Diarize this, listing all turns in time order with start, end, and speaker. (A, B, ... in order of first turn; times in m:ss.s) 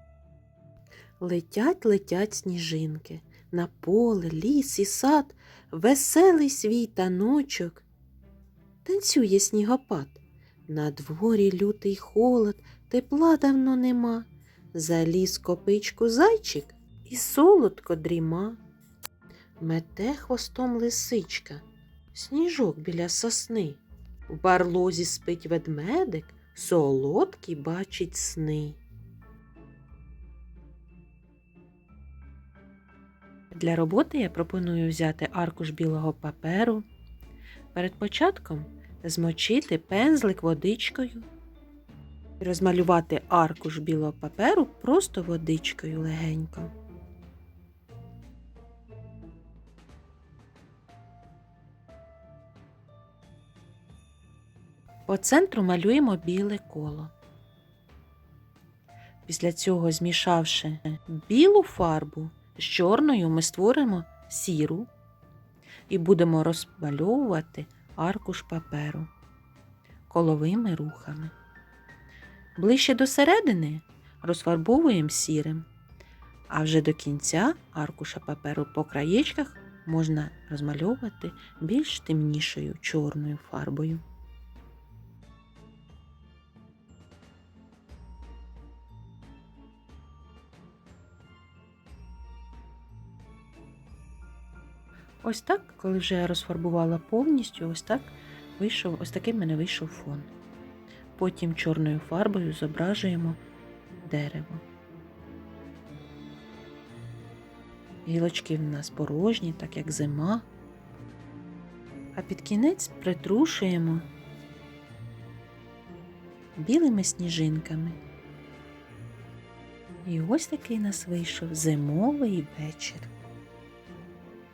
0:01.2-0:07.8 A
0:08.8-0:18.6 A
0:19.6-0:28.8 A
0:33.5-0:36.8 A
0:37.7-0:41.3 A
0:42.4-0:46.7 A
0:55.1-0:57.1 A
0:59.3-1:04.9 A
1:05.9-1:09.1 A
1:10.1-1:11.3 A
1:12.6-1:15.7 A
1:16.5-1:24.0 A
1:35.2-1:40.3 A
1:41.2-1:43.4 A
1:44.0-1:44.6 A
1:48.1-1:50.4 A
1:52.2-1:54.1 A
1:56.6-1:58.0 A
2:00.0-2:03.1 A